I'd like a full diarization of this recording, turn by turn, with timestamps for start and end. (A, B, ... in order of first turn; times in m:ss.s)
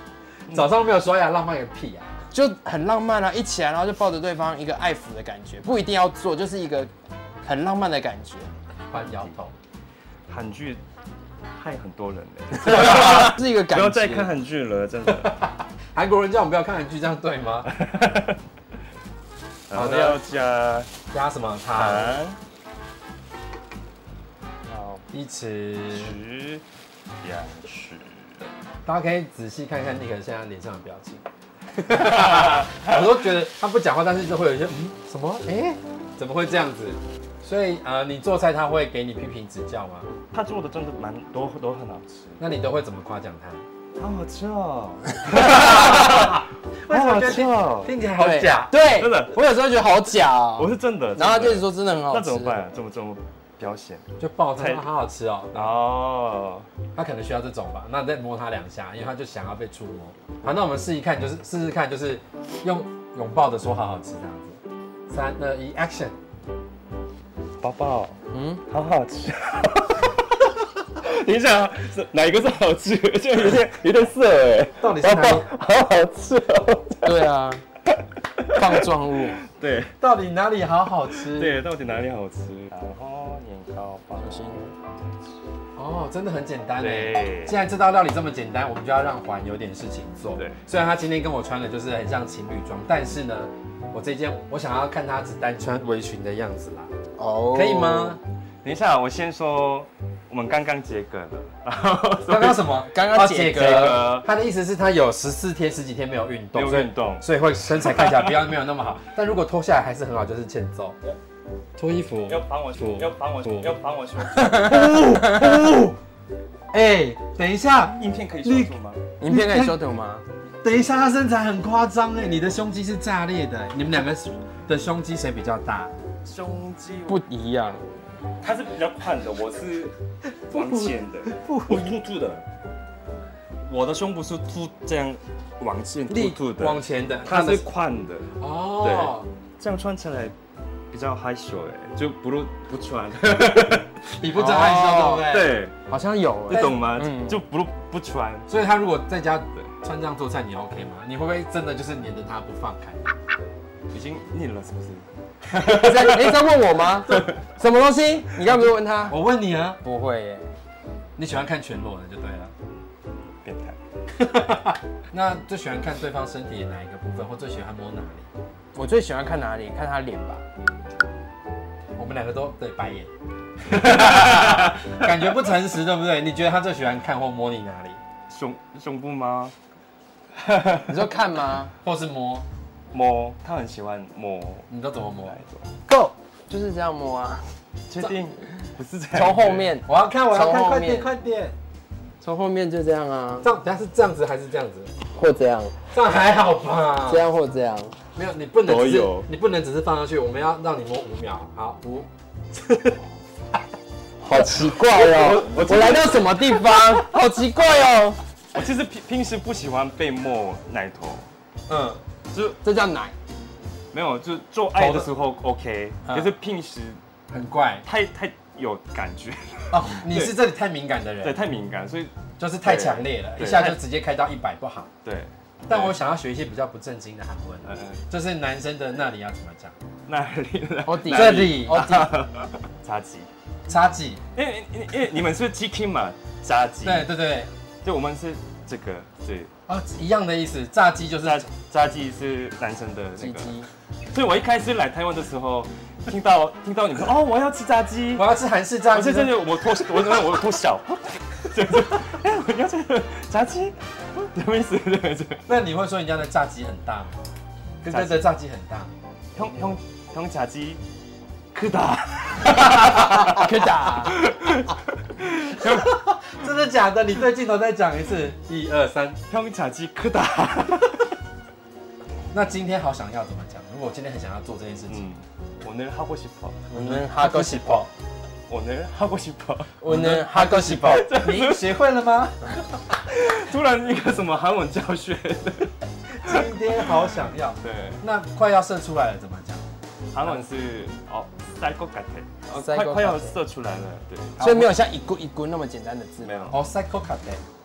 0:00.5-0:02.1 A
0:02.3-0:06.9 B
0:07.4-0:08.6 B
0:08.9-0:09.5 A
0:08.9-0:09.3 C
0:10.3-0:10.8 C
0:11.5-0:15.4 C
0:12.6-0:14.3 B
0:15.1-0:17.7 A
0:17.8-0:18.4 C
0:19.7-0:20.9 C
0:19.7-0:20.2 A
0:21.1-0:22.2 A
0:21.7-0:22.4 C
0:24.7-0:25.0 C
0:25.1-0:26.2 A
0:25.9-0:26.6 C
0:27.2-0:28.5 C
0:28.8-0:40.1 A
0:40.3-0:42.4 C
0:42.4-0:43.6 A
0:44.0-0:47.9 C
0:45.4-0:48.8 A
0:48.2-0:52.6 B
0:49.0-0:49.4 C
0:50.6-0:54.9 C
0:54.2-0:55.8 A
0:55.5-0:56.7 C
0:57.0-1:06.2 A
1:07.6-1:17.1 C
1:08.3-1:08.6 B
1:14.8-1:15.5 A
1:17.0-1:17.6 B
1:18.5-1:19.4 B
1:18.6-1:18.9 C
1:19.6-1:19.9 C
1:20.0-1:21.6 A
1:21.2-1:24.7 C
1:24.2-1:24.7 B
1:25.8-1:36.9 A
1:26.8-1:27.6 C
1:37.2-1:38.2 B
1:37.5-1:38.2 A
1:38.6-1:42.9 C
1:42.3-1:51.0 A
1:42.9-1:44.0 B
1:43.6-1:44.3 C
1:46.5-1:47.3 C
1:51.8-1:53.7 A
1:52.3-1:54.8 C
1:54.6-1:56.0 A
1:56.7-1:58.7 A
1:58.0-1:59.0 C
1:59.2-2:00.2 B
1:59.2-1:59.8 A
2:00.6-2:05.9 A
2:02.2-2:02.5 C
2:06.2-2:07.2 C
2:07.1-2:07.8 B
2:08.4-2:10.0 C
2:10.5-2:12.4 C
2:10.5-2:11.9 A
2:13.7-2:20.4 C
2:16.1-2:17.6 A
2:18.4-2:19.3 A
2:20.9-2:23.9 C
2:24.1-2:25.6 A
2:24.4-2:25.3 B
2:25.3-2:25.8 C
2:25.9-2:27.4 B
2:26.5-2:26.8 A
2:26.5-2:28.5 C
2:28.5-2:33.0 A
2:33.9-2:35.1 C
2:35.6-2:36.3 C
2:35.6-2:39.2 B
2:39.1-2:39.8 A
2:39.8-2:40.5 B
2:41.2-2:42.5 A
2:43.4-2:43.8 C
2:44.2-2:48.3 A
2:48.8-2:50.5 B
2:52.0-2:53.1 A
2:53.7-2:58.0 A
2:58.3-2:59.5 C
3:00.4-3:00.9 C
3:00.9-3:01.7 B
3:01.8-3:02.5 A
3:02.9-3:04.7 C
3:04.7-3:05.4 A
3:05.3-3:05.7 C
3:05.9-3:07.5 B
3:07.9-3:09.7 C
3:09.1-3:11.1 B
3:09.8-3:11.6 A
3:12.2-3:13.5 B
3:13.4-3:14.9 A
3:15.1-3:15.8 B
3:15.9-3:17.2 A
3:17.1-3:18.0 B
3:18.2-3:23.0 A
3:18.6-3:19.3 C
3:24.2-3:28.2 B
3:24.6-3:27.0 C
3:28.5-3:31.3 C
3:31.7-3:32.0 A
3:32.3-3:32.6 C
3:32.6-3:33.2 B
3:33.9-3:37.0 C
3:34.7-3:35.1 A
3:36.1-3:36.3 B
3:37.3-3:37.8 A
3:37.8-3:40.4 C
3:39.7-3:41.4 A
3:41.2-3:42.1 C
3:42.4-3:44.9 A
3:42.6-3:43.8 C
3:45.0-3:46.0 C
3:45.7-3:49.7 A
3:47.6-3:48.0 C
3:50.1-3:53.3 C
3:50.9-3:52.1 B
3:51.0-3:52.0 A
3:53.7-3:54.2 A
3:54.4-3:57.1 C
3:56.8-3:57.5 A
3:57.8-3:59.5 C
3:59.7-4:01.5 A
4:01.2-4:03.6 C
4:03.2-4:03.7 B
4:04.1-4:08.2 C
4:08.2-4:09.4 A
4:08.9-4:15.4 C
4:15.5-4:17.2 A
4:17.8-4:18.9 A
4:17.9-4:18.3 C
4:19.4-4:20.8 C
4:21.5-4:25.8 C
4:23.0-4:24.2 B
4:25.6-4:29.2 A
4:29.3-4:31.0 C
4:32.3-4:35.1 A
4:34.9-4:37.0 C
4:36.7-4:37.9 B
4:36.8-4:37.9 A
4:38.5-4:39.8 C
4:39.8-4:41.1 B
4:39.9-4:42.4 A
4:40.8-4:41.7 C
4:42.9-4:48.0 C
4:46.2-4:49.6 A
4:50.1-4:54.4 C
4:52.5-4:53.4 B
4:54.4-4:54.7 A
4:54.4-4:56.5 B
4:56.2-4:56.6 C
4:56.5-4:57.4 A